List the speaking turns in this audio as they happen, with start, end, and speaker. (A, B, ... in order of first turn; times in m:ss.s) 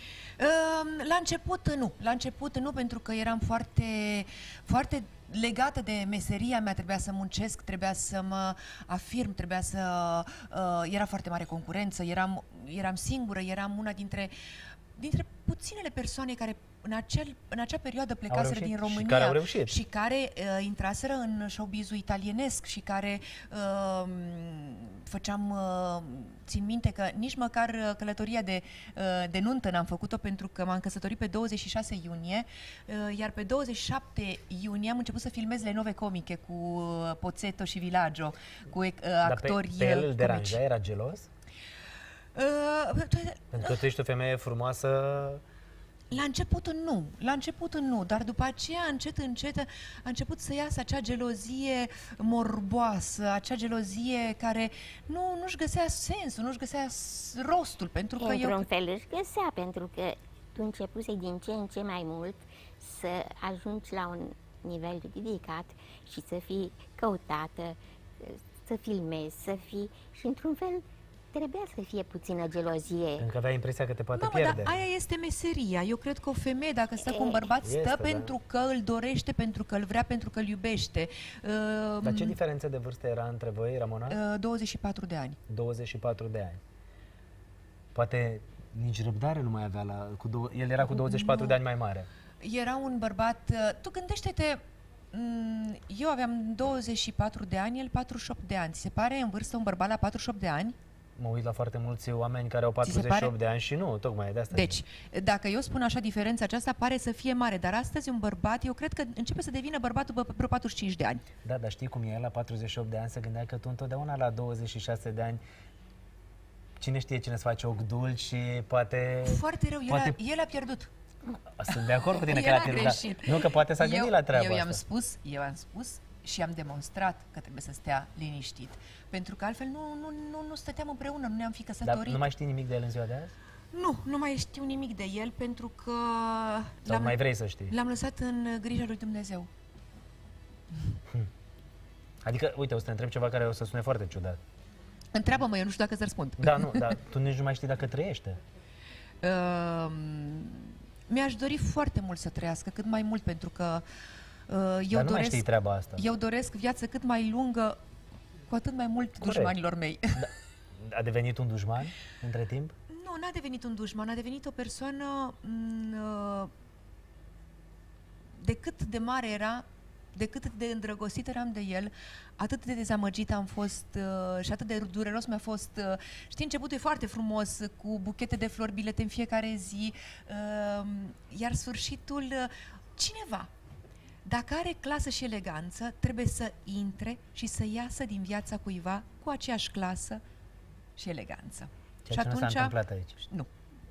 0:00.4-0:14.3 A
0:15.0-0:40.6 A
0:18.3-0:19.8 B
0:39.2-0:41.3 B
0:42.3-0:43.8 A
0:43.5-0:45.4 B
0:46.1-0:58.6 A
0:58.2-1:13.2 C
1:13.2-1:14.8 B
1:14.1-1:22.4 A
1:17.1-1:17.5 C
1:17.6-1:18.3 B
1:22.0-1:24.2 B
1:24.1-1:25.4 A
1:25.5-1:26.6 B
1:27.9-1:32.1 B
1:30.9-1:31.6 A
1:32.4-1:34.6 A
1:35.1-1:40.8 A
1:41.2-1:44.8 B
1:42.8-1:43.3 A
1:44.5-1:51.3 A
1:51.4-1:55.4 B
1:56.8-2:00.2 B
1:59.2-2:00.9 A
2:01.6-2:04.8 B
2:02.2-2:12.3 A
2:11.8-2:13.3 B
2:13.7-2:19.5 A
2:16.9-2:17.7 B
2:22.2-2:24.4 B
2:25.1-2:27.0 A
2:26.4-2:28.4 B
2:29.2-2:33.8 A
2:34.5-2:35.4 A
2:34.9-2:36.0 B
2:36.0-2:37.8 A
2:38.5-2:40.3 A
2:39.2-2:39.6 B
2:40.8-2:42.7 B
2:42.9-2:46.5 A
2:48.4-3:03.5 A
3:04.2-3:10.2 A
3:11.0-3:13.5 A
3:12.0-3:13.2 B